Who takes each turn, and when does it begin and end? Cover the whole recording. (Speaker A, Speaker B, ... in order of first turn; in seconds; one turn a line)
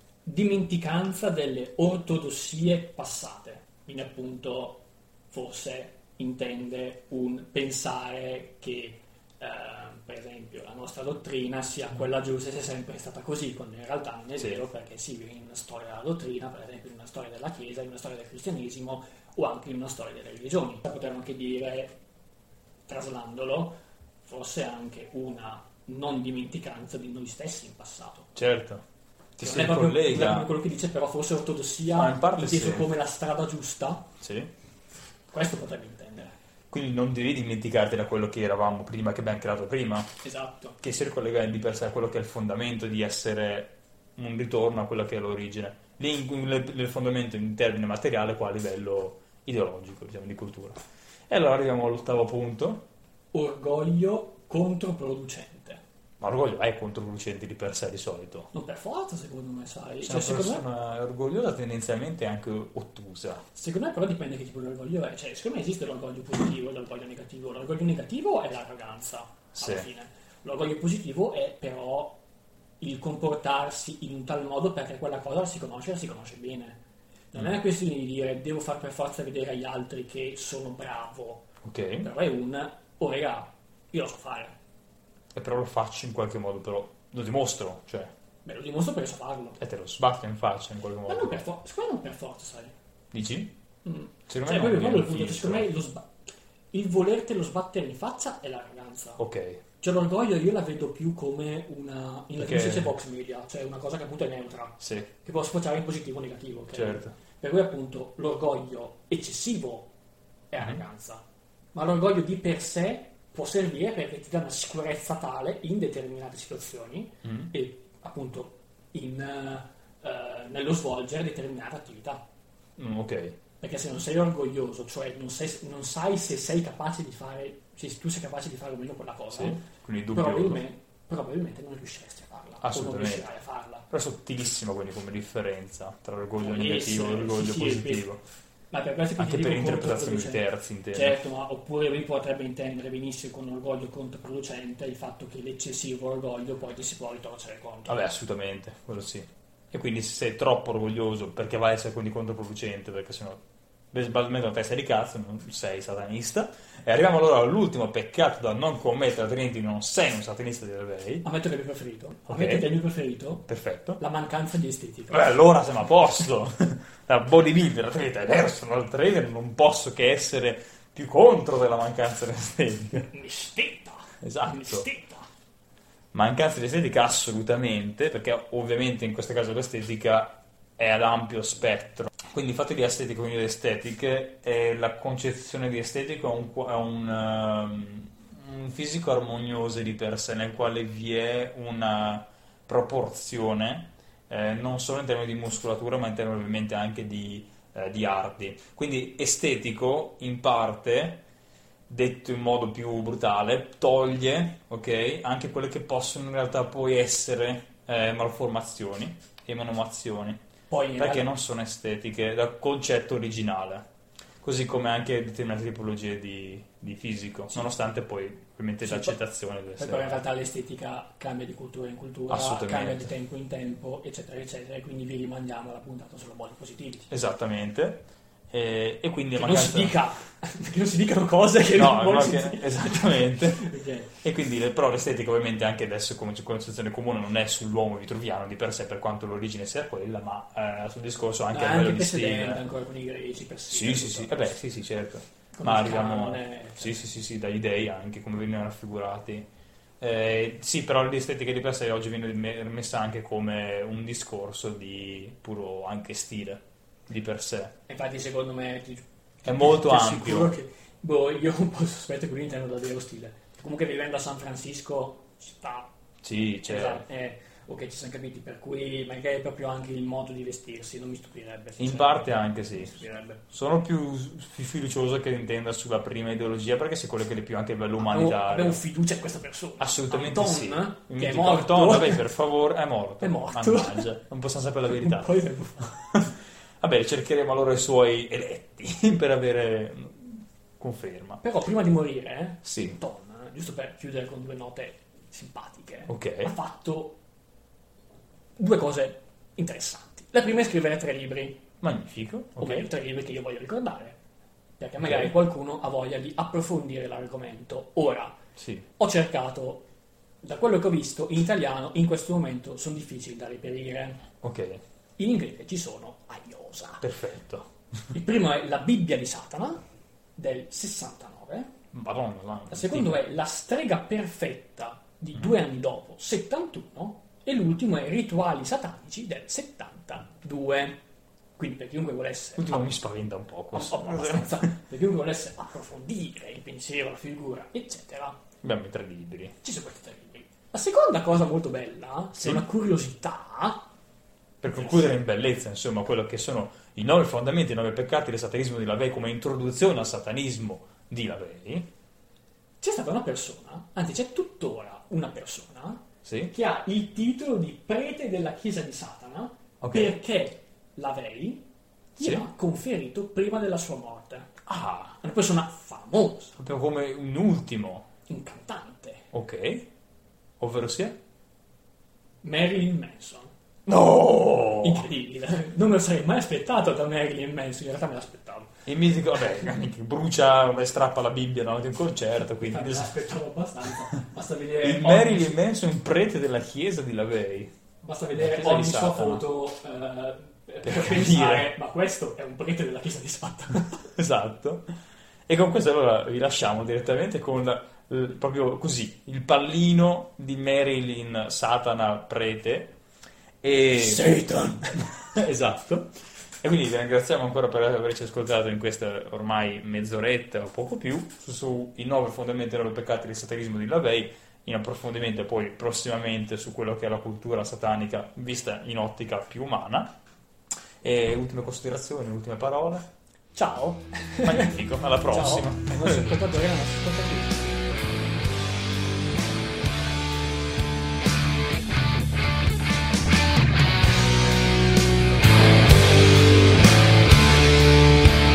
Speaker A: 0.2-22.0
Speaker A: 22.9-28.3
Speaker B: 28.4-28.8
Speaker B: 29.4-30.5
Speaker A: 29.4-34.1
Speaker B: 31.9-32.9
Speaker B: 34.2-34.5
Speaker A: 35.3-36.3
Speaker B: 36.7-40.1
Speaker A: 40.2-40.8
Speaker B: 40.8-52.9
Speaker A: 53.3-55.8
Speaker B: 56.2-58.5
Speaker A: 58.5-60.6
Speaker B: 60.0-63.4
Speaker A: 63.5-72.2
Speaker B: 69.6-69.9
Speaker A: 72.8-76.8
Speaker A: 77.3-81.5
Speaker B: 81.6-82.1
Speaker A: 82.0-84.6
Speaker B: 85.3-88.1
Speaker A: 88.5-89.6
Speaker B: 89.6-91.4
Speaker A: 91.1-92.7
Speaker B: 93.1-93.5
Speaker A: 93.8-96.1
Speaker B: 94.3-95.7
Speaker A: 96.7-99.2
Speaker B: 99.2-99.6
Speaker A: 99.8-109.9
Speaker B: 102.4-102.9
Speaker B: 104.8-105.1
Speaker B: 106.7-107.1
Speaker A: 110.5-111.2
Speaker A: 111.7-122.2
Speaker B: 117.2-117.5
Speaker B: 122.8-123.4
Speaker A: 123.6-133.9
Speaker B: 129.3-130.6
Speaker B: 132.6-133.3
Speaker B: 133.9-138.2
Speaker A: 136.4-138.1
Speaker A: 138.7-148.0
Speaker B: 139.2-141.2
Speaker B: 147.9-153.4
Speaker B: 153.9-161.3
Speaker A: 161.2-163.5
Speaker B: 162.3-162.7
Speaker B: 163.5-164.0
Speaker A: 164.0-165.3
Speaker B: 165.1-173.1
Speaker A: 173.1-175.3
Speaker B: 174.2-174.9
Speaker B: 176.1-201.2
Speaker B: 201.9-210.4
Speaker A: 210.7-211.3
Speaker B: 211.0-213.9
Speaker B: 214.4-220.2
Speaker A: 218.8-219.2
Speaker A: 219.8-227.1
Speaker B: 222.3-223.1
Speaker B: 227.1-230.0
Speaker A: 229.3-234.1
Speaker B: 231.8-242.6
Speaker A: 241.5-244.5
Speaker B: 243.7-249.5
Speaker A: 245.5-247.1
Speaker B: 250.0-257.8
Speaker A: 257.9-265.9
Speaker B: 259.4-260.5
Speaker B: 266.2-267.0
Speaker A: 266.6-273.4
Speaker B: 271.8-278.8
Speaker A: 278.0-282.2
Speaker B: 279.8-285.3
Speaker A: 283.2-284.1
Speaker A: 284.9-286.0
Speaker B: 286.1-291.4
Speaker A: 291.4-297.2
Speaker B: 292.6-293.0
Speaker B: 296.1-296.5
Speaker A: 298.6-301.6
Speaker B: 301.8-302.9
Speaker A: 302.6-304.2
Speaker A: 304.8-308.4
Speaker B: 305.0-305.4
Speaker B: 308.6-308.9
Speaker A: 309.0-309.9
Speaker A: 310.4-314.2
Speaker B: 314.4-314.8
Speaker A: 315.2-317.1
Speaker B: 317.0-317.7
Speaker A: 318.1-319.8
Speaker A: 320.4-321.7
Speaker B: 321.9-323.2
Speaker A: 322.7-331.0
Speaker A: 331.6-332.9
Speaker B: 332.6-334.8
Speaker A: 333.7-338.4
Speaker B: 338.6-339.6
Speaker A: 339.6-343.9
Speaker B: 342.4-342.6
Speaker B: 344.6-351.9
Speaker A: 344.7-345.2
Speaker A: 352.8-361.6
Speaker B: 356.2-356.5
Speaker B: 359.8-360.2
Speaker A: 362.2-364.5
Speaker B: 362.2-362.5
Speaker B: 364.6-365.2
Speaker A: 365.2-366.6
Speaker B: 366.6-368.1
Speaker A: 368.3-369.3
Speaker B: 369.3-369.9
Speaker B: 370.6-371.2
Speaker A: 372.4-373.5
Speaker B: 373.9-375.1
Speaker A: 374.8-378.8
Speaker B: 378.9-383.1
Speaker A: 382.6-385.6
Speaker B: 384.8-387.7
Speaker A: 388.0-394.1
Speaker B: 388.4-389.4
Speaker B: 390.9-391.7
Speaker B: 394.1-394.9
Speaker B: 395.5-402.9
Speaker B: 403.6-420.1
Speaker A: 403.9-405.0
Speaker B: 421.0-423.1
Speaker A: 423.5-428.2
Speaker B: 424.4-426.4